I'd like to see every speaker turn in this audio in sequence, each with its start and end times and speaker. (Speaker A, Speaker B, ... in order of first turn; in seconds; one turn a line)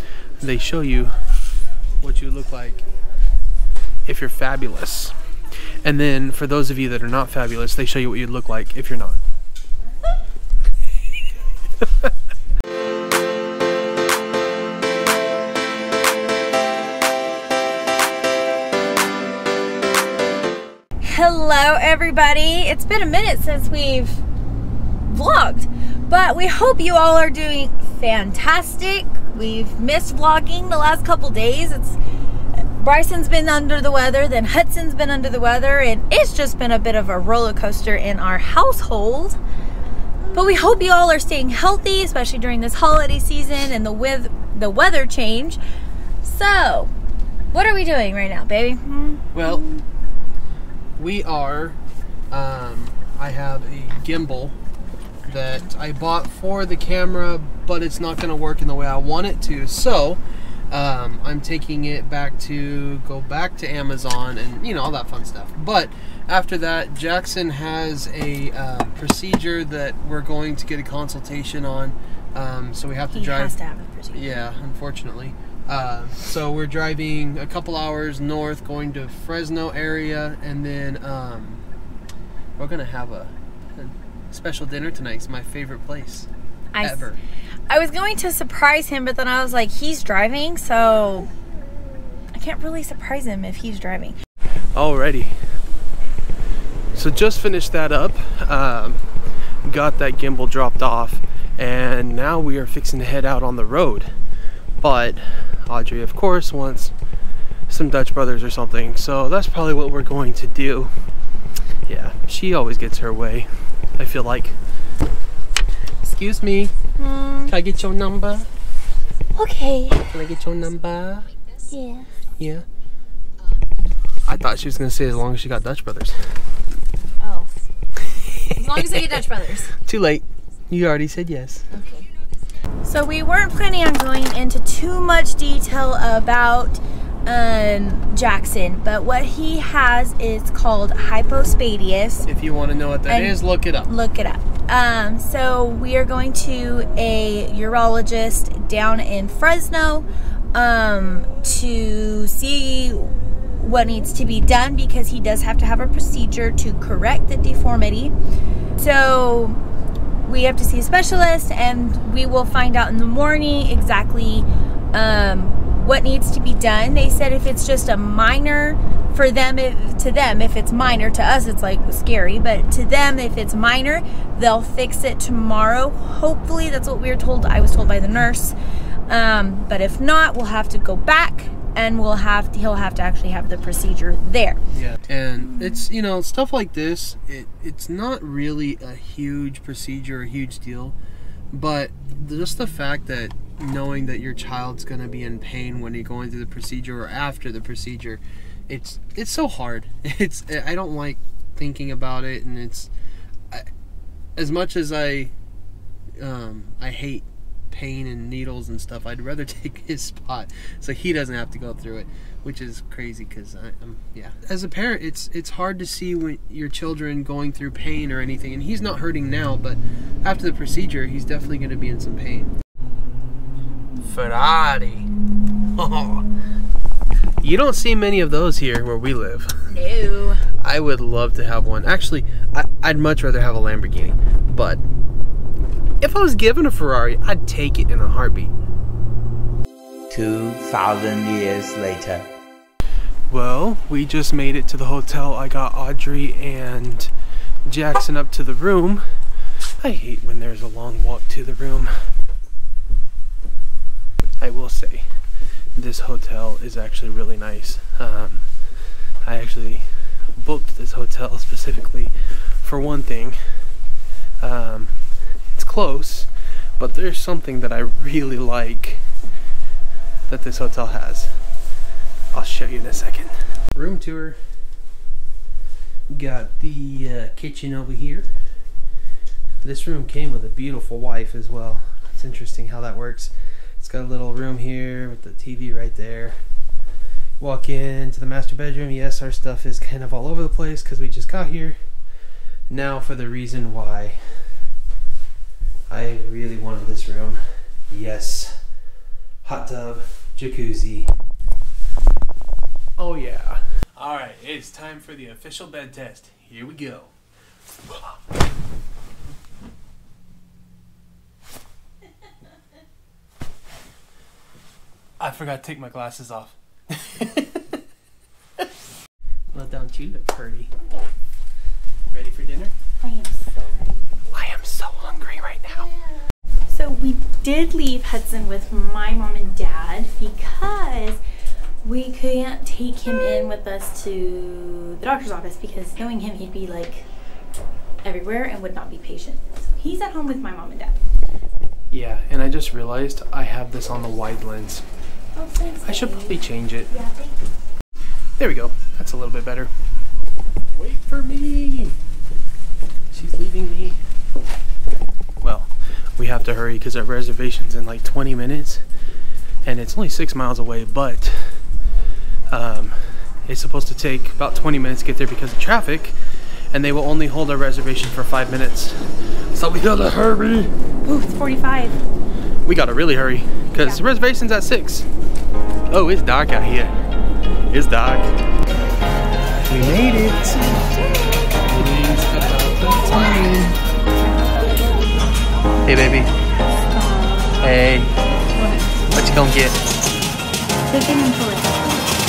Speaker A: 0.4-1.2
Speaker A: 2.0-2.9
Speaker A: 4.0-5.2
Speaker A: 5.8-9.2
Speaker B: 21.0-24.2
Speaker B: 25.1-32.0
Speaker B: 32.6-39.4
Speaker B: 40.3-45.6
Speaker B: 46.2-46.9
Speaker B: 47.5-49.8
Speaker A: 49.3-49.7
Speaker A: 51.0-51.8
Speaker A: 52.3-54.5
Speaker A: 55.3-73.5
Speaker B: 73.1-74.2
Speaker A: 74.1-81.6
Speaker A: 82.6-86.3
Speaker B: 86.7-87.1
Speaker A: 86.8-87.2
Speaker B: 87.7-91.3
Speaker B: 92.3-94.2
Speaker A: 94.8-95.4
Speaker A: 96.9-99.0
Speaker A: 99.7-104.1
Speaker A: 104.8-106.9
Speaker A: 107.7-110.9
Speaker A: 111.9-114.6
Speaker A: 116.0-116.7
Speaker B: 117.0-117.5
Speaker A: 117.5-118.5
Speaker B: 119.3-120.1
Speaker A: 120.1-121.3
Speaker B: 121.7-122.1
Speaker A: 122.4-122.7
Speaker A: 124.3-126.2
Speaker B: 127.2-127.5
Speaker A: 128.1-129.1
Speaker B: 128.5-129.7
Speaker A: 129.8-131.7
Speaker B: 131.7-132.1
Speaker B: 132.8-142.3
Speaker A: 142.3-143.9
Speaker B: 143.1-158.1
Speaker B: 158.8-159.6
Speaker B: 160.2-178.6
Speaker B: 179.1-184.6
Speaker A: 184.7-191.0
Speaker B: 185.6-185.8
Speaker A: 191.5-202.9
Speaker A: 204.4-205.3
Speaker A: 206.2-222.5
Speaker A: 224.0-225.1
Speaker A: 225.8-226.2
Speaker A: 227.4-229.6
Speaker B: 229.7-230.4
Speaker A: 230.6-234.8
Speaker A: 236.0-238.6
Speaker C: 240.1-242.3
Speaker A: 243.3-247.1
Speaker A: 247.7-249.1
Speaker A: 249.8-251.9
Speaker A: 254.4-255.1
Speaker A: 255.8-258.5
Speaker A: 259.2-263.4
Speaker A: 264.4-265.0
Speaker A: 265.5-269.1
Speaker A: 270.3-271.4
Speaker A: 272.3-274.4
Speaker A: 276.1-278.3
Speaker A: 279.6-286.4
Speaker A: 287.4-291.8
Speaker A: 292.7-294.5
Speaker A: 295.9-298.6
Speaker A: 299.4-301.1
Speaker A: 303.0-307.1
Speaker A: 307.9-308.2
Speaker A: 315.2-317.7
Speaker A: 319.5-320.7
Speaker A: 322.1-322.7
Speaker B: 323.0-324.0
Speaker A: 324.3-325.9
Speaker B: 326.7-331.2
Speaker B: 331.8-337.0
Speaker B: 338.0-341.0
Speaker A: 341.9-344.9
Speaker B: 345.4-347.4
Speaker A: 345.8-347.0
Speaker A: 348.4-349.7
Speaker A: 350.8-352.0
Speaker A: 353.1-354.0
Speaker A: 355.4-358.8
Speaker A: 359.6-361.6
Speaker A: 362.5-366.2
Speaker A: 366.7-370.7
Speaker B: 371.1-372.0
Speaker A: 372.6-375.1
Speaker B: 373.8-374.0
Speaker A: 375.9-376.9
Speaker A: 377.7-378.3
Speaker A: 379.7-380.9
Speaker A: 381.6-383.8
Speaker B: 384.1-385.3
Speaker A: 385.9-386.3
Speaker B: 386.9-387.7
Speaker A: 387.6-388.1
Speaker B: 388.6-388.9
Speaker A: 389.1-389.8
Speaker B: 390.9-392.1